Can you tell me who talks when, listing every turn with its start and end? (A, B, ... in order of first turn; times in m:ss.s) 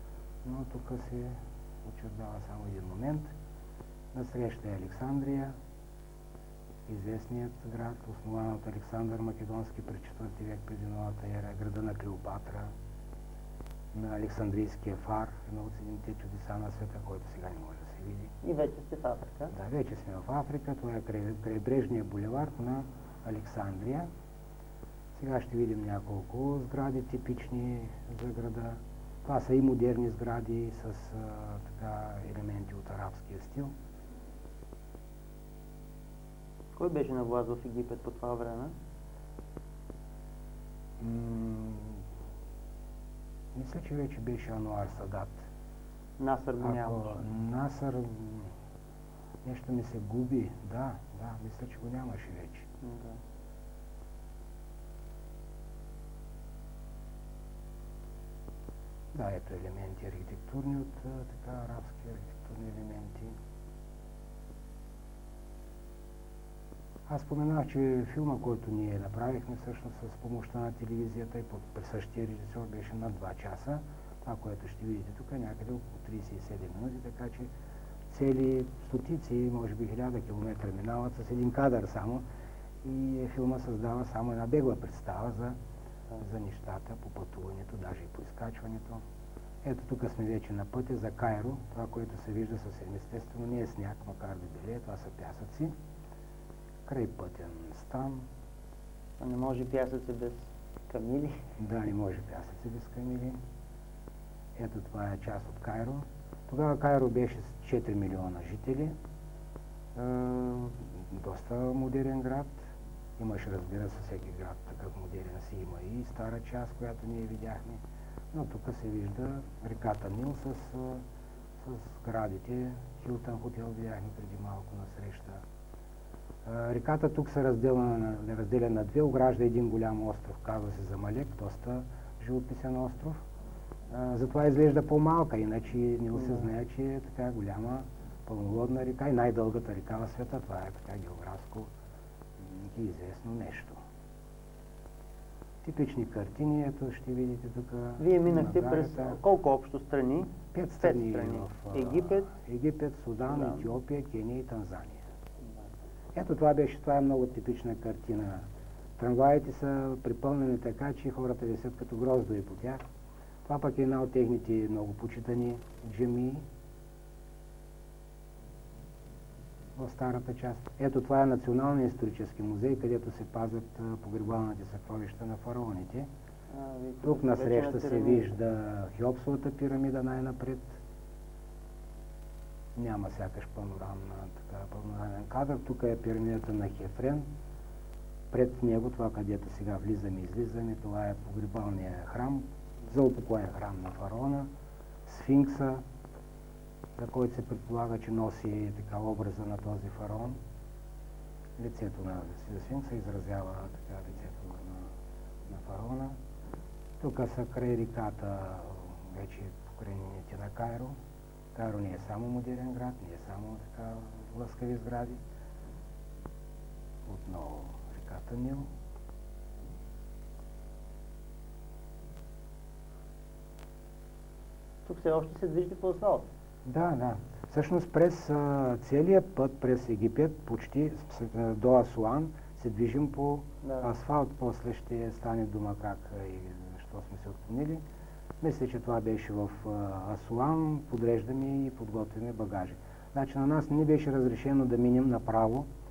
0:00.4-0:03.3 A
0:04.1-0:05.5 A
0:06.9-0:12.7 A
0:13.9-0:18.3 A
0:18.4-0:19.5 B
0:19.5-0:24.1 A
0:25.1-0:33.7 A
0:36.8-0:38.7 B
0:41.0-0:42.0 A
0:43.5-0:45.4 A
0:46.2-0:47.2 B
0:46.6-0:48.5 A
0:49.4-0:52.7 A
0:52.8-0:53.2 B
0:59.1-1:03.3 A
1:07.1-1:17.5 A
1:18.1-1:22.2 A
1:22.8-1:25.6 A
1:26.2-1:29.0 A
1:29.6-1:35.7 A
1:36.8-1:38.3 A
1:39.2-1:41.4 B
1:41.6-1:43.4 A
1:44.6-1:49.0 A
1:49.9-1:52.6 A
1:53.2-2:01.0 A
2:01.6-2:05.4 A
2:06.4-2:13.2 A
2:13.9-2:21.7 A
2:22.4-2:23.8 A
2:25.6-2:29.2 A
2:28.0-2:32.3 B
2:30.5-2:35.0 A
2:33.3-2:33.6 B
2:36.1-2:38.4 A
2:39.0-2:42.8 A
2:43.4-2:46.4 A
2:49.8-2:56.1 A
2:56.5-2:58.3 B
2:57.0-3:00.8 A
3:02.8-3:07.2 A
3:08.3-3:14.5 A
3:15.0-3:15.8 A
3:17.0-3:20.4 A
3:21.6-3:24.9 A
3:25.5-3:26.2 A
3:27.0-3:31.0 A
3:31.5-3:35.2 A
3:37.0-3:38.7 A
3:44.8-3:46.3 B
3:46.6-3:57.8 A
3:53.6-3:53.9 B
3:58.4-4:05.7 A